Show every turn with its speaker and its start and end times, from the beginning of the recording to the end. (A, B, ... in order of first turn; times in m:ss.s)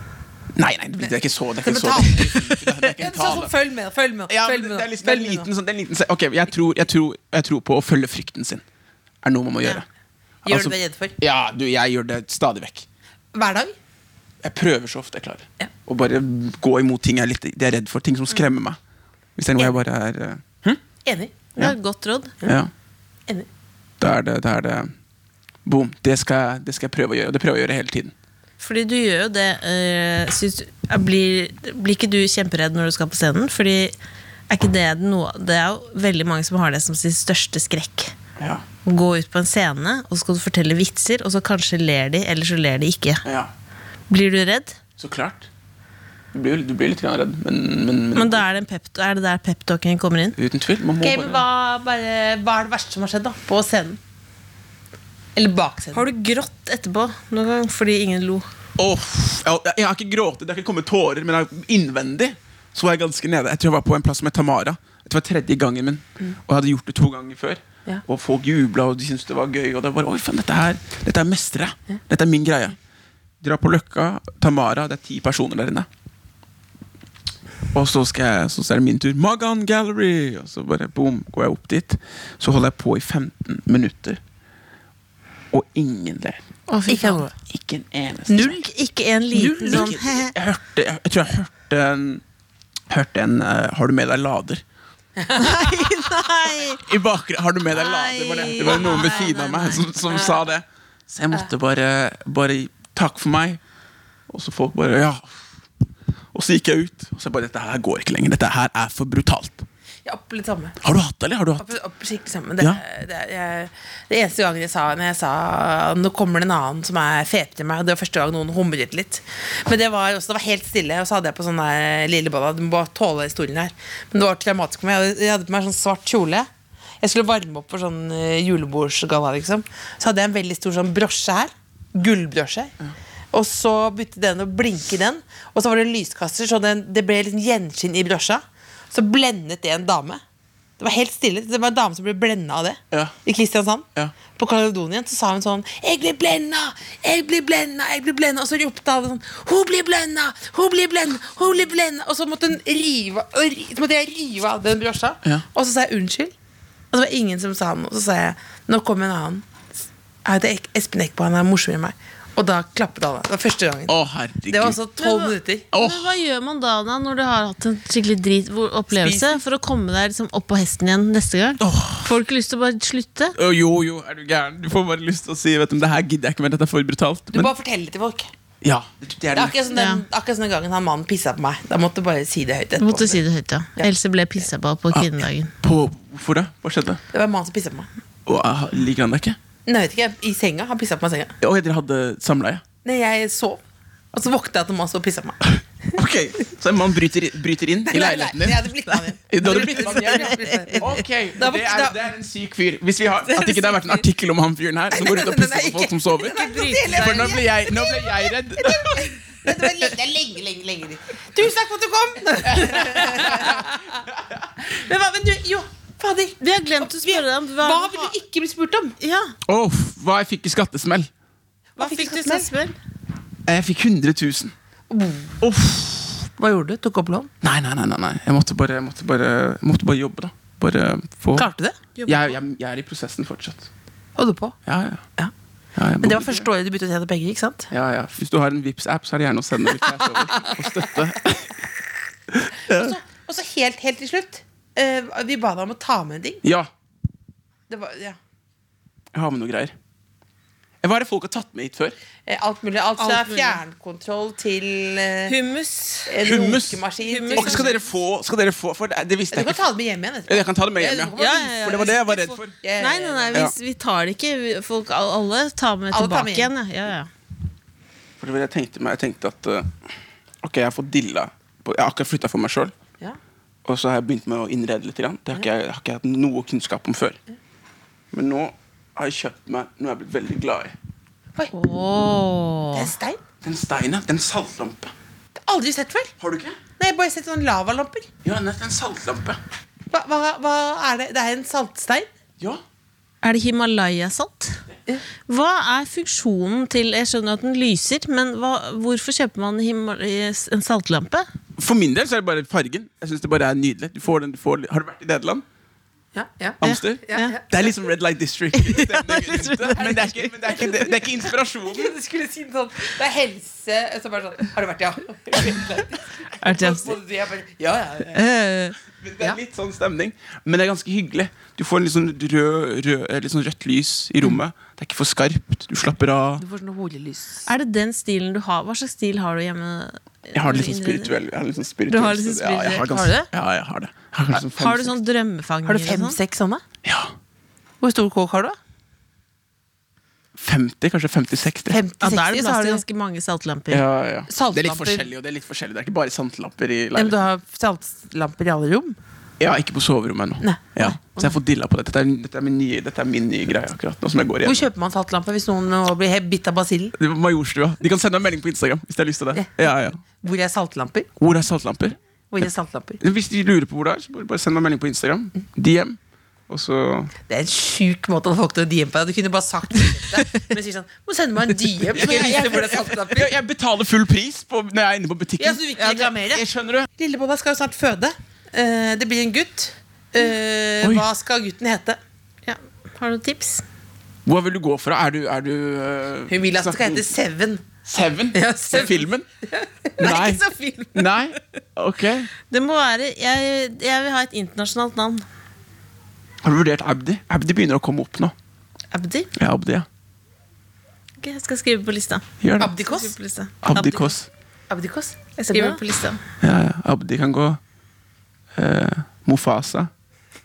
0:00.5-0:03.5 A
0:01.6-0:05.5 B
0:04.3-0:08.6 A
0:09.2-0:09.9 A
0:10.4-0:11.2 B
0:10.4-0:12.9 A
0:13.3-0:13.7 B
0:14.4-0:18.8 A
0:19.4-0:20.8 A
0:21.0-0:21.4 B
0:21.6-0:22.3 C
0:22.4-0:22.7 A
0:24.0-0:24.9 A
0:25.6-0:28.1 A
0:28.6-0:34.0 C
0:34.5-0:38.1 C
0:38.4-0:38.6 A
0:38.8-0:43.2 C
0:43.2-0:43.5 A
0:44.1-0:44.8 C
0:45.0-0:45.5 A
0:46.3-0:48.4 A
0:48.1-0:50.4 C
0:50.4-0:51.4 A
0:51.0-0:54.0 B
0:55.4-0:56.0 B
0:55.9-0:58.5 C
0:58.8-1:12.8 A
1:13.4-1:15.9 A
1:17.7-1:24.2 A
1:25.5-1:26.4 A
1:26.7-1:27.3 C
1:26.9-1:27.3 B
1:27.3-1:28.6 A
1:28.3-1:28.7 B
1:28.5-1:30.3 C
1:29.3-1:30.0 B
1:29.6-1:32.2 A
1:32.9-1:34.6 A
1:35.2-1:35.8 B
1:35.4-1:36.8 C
1:36.8-1:43.6 A
1:37.7-1:39.8 C
1:38.6-1:39.2 B
1:40.1-1:40.4 B
1:44.3-1:45.4 A
1:46.3-1:49.7 A
1:50.0-1:50.8 B
1:50.8-1:51.7 A
1:51.6-2:06.5 B
2:07.0-2:12.7 B
2:13.3-2:20.2 B
2:20.8-2:36.3 B
2:36.9-2:39.4 B
2:40.2-2:44.0 B
2:43.9-2:44.8 A
2:44.5-2:45.7 B
2:45.0-2:53.4 C
2:45.7-2:46.1 A
2:48.9-2:49.4 B
2:51.6-2:52.1 A
2:53.4-2:57.5 A
2:57.3-2:58.3 B
2:58.6-2:59.6 A
2:59.3-3:03.2 B
2:59.7-3:00.0 C
3:02.8-3:05.5 C
3:04.9-3:07.0 A
3:07.1-3:07.9 B
3:08.3-3:09.4 A
3:09.7-3:11.4 B
3:11.4-3:12.6 A
3:12.8-3:13.6 B
3:14.1-3:15.6 B
3:16.0-3:18.7 A
3:17.9-3:22.0 B
3:19.3-3:29.1 A
3:19.5-3:20.7 C
3:24.9-3:34.0 B
3:26.3-3:27.2 C
3:32.4-3:34.2 A
3:34.6-3:39.0 B
3:36.4-3:38.2 C
3:39.0-3:39.4 C
3:39.5-3:41.1 A
3:41.8-3:42.5 B
3:41.8-3:42.7 C
3:43.4-3:44.5 A
3:44.9-3:45.4 B
3:45.4-3:46.3 A
3:46.4-3:47.3 B
3:47.4-3:51.5 A
3:51.4-3:51.8 B
3:52.0-3:52.4 C
3:52.0-3:53.7 A
3:54.2-3:54.6 B
3:54.7-3:55.0 A
3:55.8-3:56.5 A
3:56.0-3:57.7 B
3:57.7-4:01.6 A
4:00.0-4:01.0 B
4:02.3-4:03.0 A
4:02.7-4:06.4 B
4:06.4-4:06.7 A
4:07.7-4:08.2 B
4:09.1-4:09.7 A
4:10.8-4:12.0 A
4:12.3-4:15.4 B
4:13.0-4:13.6 C
4:15.3-4:16.1 C
4:16.1-4:17.8 B
4:16.2-4:16.8 A
4:17.0-4:17.8 C
4:17.4-4:19.6 A
4:19.3-4:21.9 B
4:20.3-4:22.5 A
4:21.2-4:27.1 C
4:22.5-4:23.5 B
4:25.9-4:26.5 B
4:28.2-4:29.8 A
4:30.4-4:32.7 A
4:33.6-4:37.2 A
4:38.1-4:40.8 A
4:41.5-4:42.9 C
4:42.7-4:43.2 B
4:43.4-4:44.9 A
4:45.4-4:46.1 B
4:46.2-4:46.6 A
4:46.8-4:48.1 B
4:48.2-4:49.4 A
4:49.9-4:52.1 B
4:53.2-4:54.6 C
4:55.3-5:01.3 C
5:01.6-5:05.4 A
5:06.1-5:07.6 B
5:06.6-5:11.9 A
5:06.6-5:07.4 C
5:08.5-5:10.5 C
5:09.8-5:10.1 B
5:11.7-5:18.3 B
5:15.3-5:15.6 A
5:16.4-5:17.0 C
5:18.1-5:18.8 C
5:19.0-5:26.4 A
5:26.4-5:27.5 B
5:27.4-5:31.1 C
5:30.3-5:35.0 A
5:31.9-5:32.9 C
5:32.7-5:33.3 B
5:34.3-5:36.2 C
5:35.7-5:36.6 B
5:36.8-5:37.1 A
5:37.8-5:38.6 B
5:40.4-5:41.8 A
5:41.7-5:42.8 B
5:42.0-5:43.8 C
5:43.7-5:47.2 A
5:44.3-5:45.1 B
5:46.9-5:49.0 B
5:49.4-5:54.7 A
5:50.4-5:51.4 B
5:54.4-5:56.9 B
5:57.0-6:00.0 A
6:00.1-6:01.1 B
6:01.2-6:02.0 A
6:02.3-6:03.0 B
6:03.0-6:06.0 A
6:06.5-6:07.1 A
6:07.3-6:13.3 B
6:11.9-6:16.9 A
6:15.4-6:16.4 B
6:17.0-6:22.0 B
6:20.8-6:21.1 A
6:22.4-6:23.6 C
6:24.2-6:27.1 A
6:26.3-6:27.7 B
6:27.8-6:29.3 A
6:28.3-6:30.1 B
6:30.0-6:30.4 A
6:30.0-6:31.2 C
6:30.9-6:32.3 A
6:32.5-6:35.2 C
6:36.4-6:38.3 A
6:38.9-6:39.3 C
6:39.4-6:39.9 A
6:41.2-6:44.1 C
6:42.4-6:42.7 A
6:42.6-6:43.1 B
6:43.6-6:44.3 A
6:44.7-6:45.8 B
6:45.4-6:46.2 C
6:46.4-6:47.6 A
6:48.6-6:49.9 A